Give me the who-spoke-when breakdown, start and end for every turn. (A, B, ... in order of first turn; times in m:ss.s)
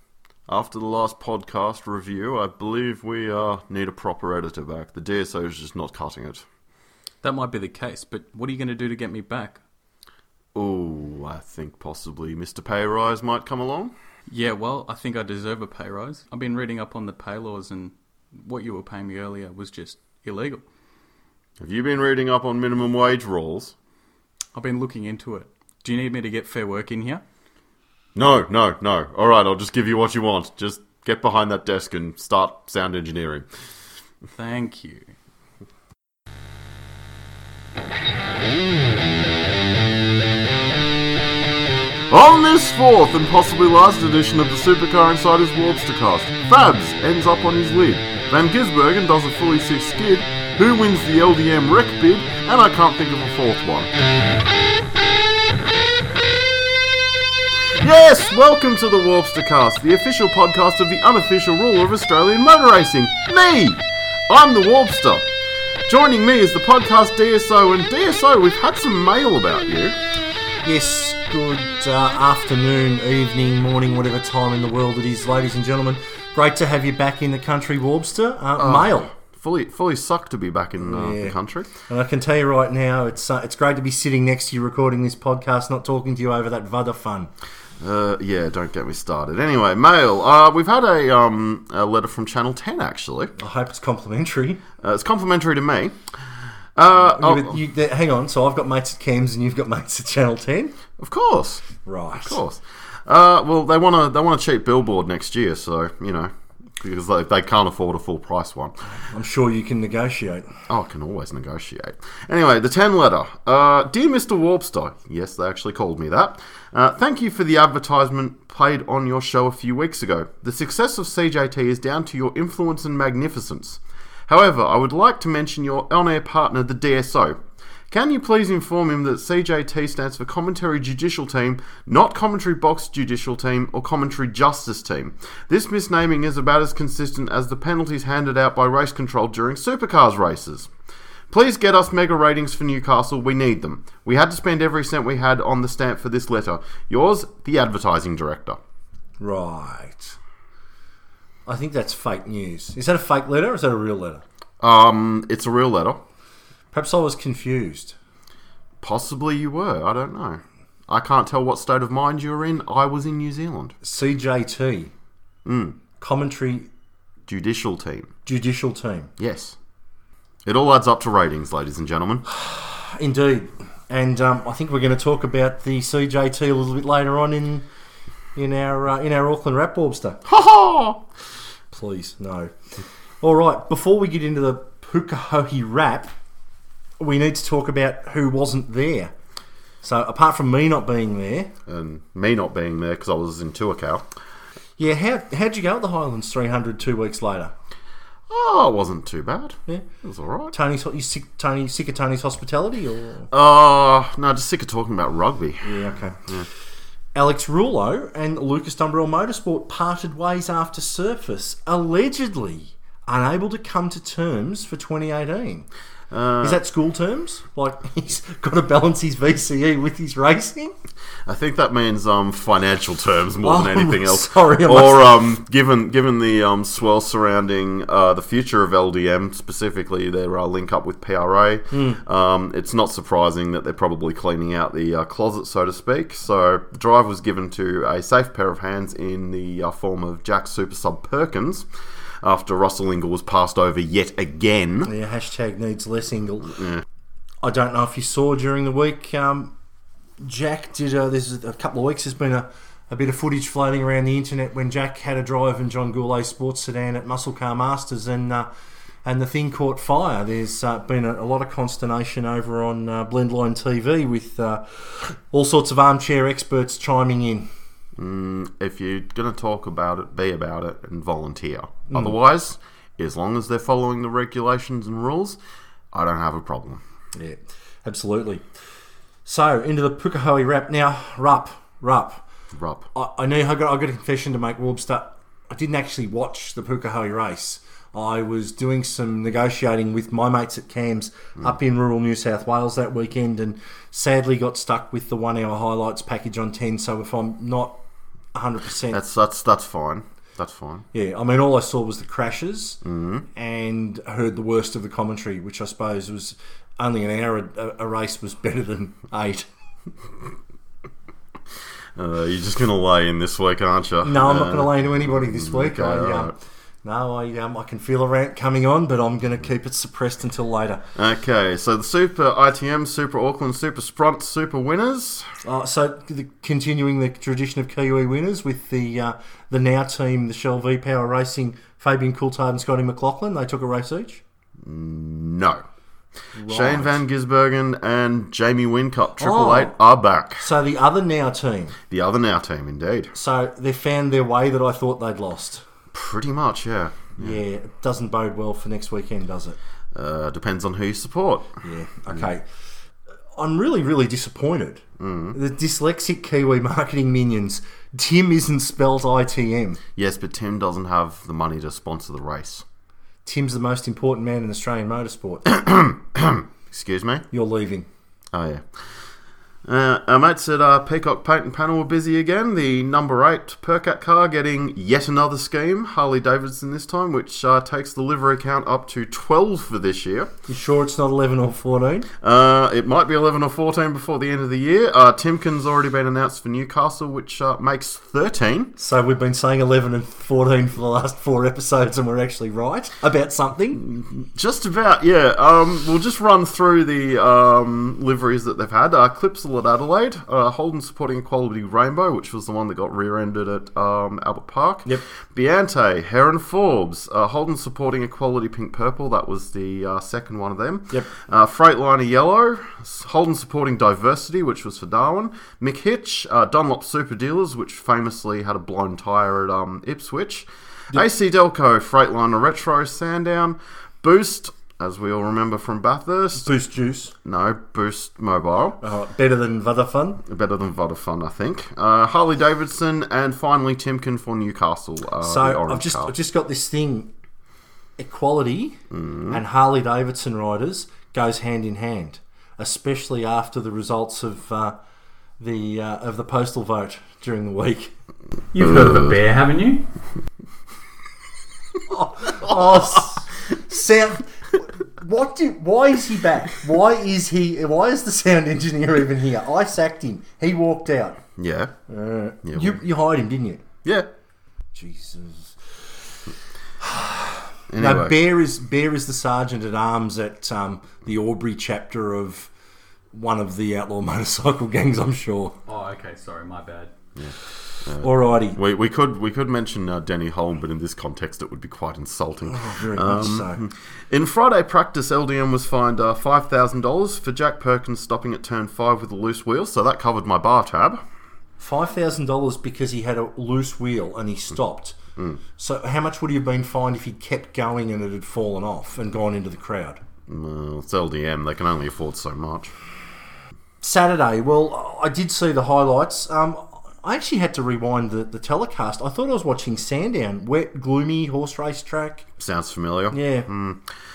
0:00.5-0:06.4 A
0:07.2-0:09.6 B
0:10.6-0:13.9 A
0:14.3-0:20.6 B
0:21.6-0:23.8 A
0:24.5-0:27.2 B
0:28.2-0:33.5 A
0:34.4-0:35.1 B
0:42.1-0:53.9 A
0:57.8-1:05.3 A
1:05.9-1:10.0 A
1:10.6-1:19.1 C
1:18.6-1:21.7 A
1:20.8-1:27.3 C
1:27.8-1:33.3 A
1:33.4-1:34.6 C
1:34.8-1:36.0 A
1:36.8-1:37.6 A
1:37.0-1:40.8 C
1:41.0-1:41.7 A
1:41.8-1:42.4 C
1:42.2-1:48.8 A
1:49.0-1:50.5 C
1:50.7-2:20.7 A
2:21.3-2:28.6 A
2:29.2-2:30.2 C
2:31.5-2:34.2 C
2:34.6-2:36.0 A
2:36.7-2:38.0 C
2:38.8-2:43.8 A
2:43.8-2:44.9 C
2:45.4-2:45.8 A
2:46.0-2:46.7 C
2:47.3-2:48.1 A
2:48.3-2:49.1 C
2:49.2-2:49.6 A
2:50.4-2:52.2 A
2:52.3-2:57.7 C
2:58.4-3:00.2 C
3:00.2-3:01.0 A
3:01.7-3:02.5 C
3:03.2-3:06.1 C
3:07.0-3:09.1 C
3:09.8-3:11.5 C
3:11.7-3:14.1 A
3:14.8-3:17.5 C
3:18.3-3:20.5 A
3:20.5-3:23.3 C
3:23.3-3:26.5 A
3:25.6-3:26.2 C
3:27.2-3:35.7 C
3:36.1-3:36.6 A
3:36.4-3:40.7 C
3:41.3-4:01.7 A
3:43.4-3:45.2 C
3:51.7-3:52.0 C
4:02.2-4:04.9 A
4:04.8-4:06.6 C
4:06.5-4:06.8 A
4:07.4-4:09.5 C
4:10.2-4:18.5 C
4:19.0-4:27.5 C
4:28.0-4:35.4 A
4:31.9-4:32.1 C
4:35.9-4:36.8 A
4:37.2-4:38.4 C
4:39.2-4:42.2 C
4:42.5-4:42.9 A
4:42.9-4:57.8 C
4:58.3-4:59.0 C
4:58.9-5:00.9 A
5:00.9-5:02.8 C
5:02.8-5:03.3 A
5:03.3-5:09.5 C
5:12.0-5:16.3 A
5:14.0-5:20.8 C
5:21.0-5:25.3 A
5:25.4-5:34.2 C
5:34.6-5:35.6 A
5:36.4-5:37.0 C
5:36.5-5:40.5 A
5:39.2-5:39.8 C
5:40.4-5:41.8 C
5:41.9-5:43.1 A
5:43.1-5:45.6 C
5:45.9-5:47.4 A
5:47.2-5:49.6 C
5:49.9-5:51.6 A
5:51.6-5:52.4 C
5:53.4-5:59.8 C
5:55.0-5:55.4 A
6:00.0-6:02.6 A
6:03.2-6:05.5 C
6:05.5-6:07.2 A
6:07.3-6:07.9 C
6:08.3-6:08.6 A
6:09.7-6:20.3 A
6:20.5-6:22.1 C
6:22.2-6:28.7 A
6:28.8-6:33.8 C
6:33.8-7:06.5 A
7:06.4-7:07.1 C
7:07.2-7:08.8 A
7:08.8-7:10.2 C
7:10.3-7:16.2 A
7:15.2-7:17.1 C
7:18.0-7:18.8 C
7:18.9-7:19.4 A
7:19.3-7:24.8 C
7:25.4-7:27.9 C
7:28.5-7:29.9 B
7:31.9-7:41.2 C
7:41.4-7:41.8 A
7:41.9-7:43.6 C
7:42.4-7:42.8 A
7:43.8-7:44.1 A
7:44.8-7:45.6 C
7:46.8-7:52.5 C
7:47.7-7:48.2 A
7:53.1-7:55.6 C
7:55.7-7:56.9 B
7:57.2-8:11.0 A
7:58.0-7:58.6 C
8:02.5-8:03.6 C
8:11.6-8:15.0 C
8:15.6-8:20.0 C
8:20.3-8:22.7 A
8:23.8-8:32.3 C
8:32.4-8:33.8 A
8:33.1-8:33.5 C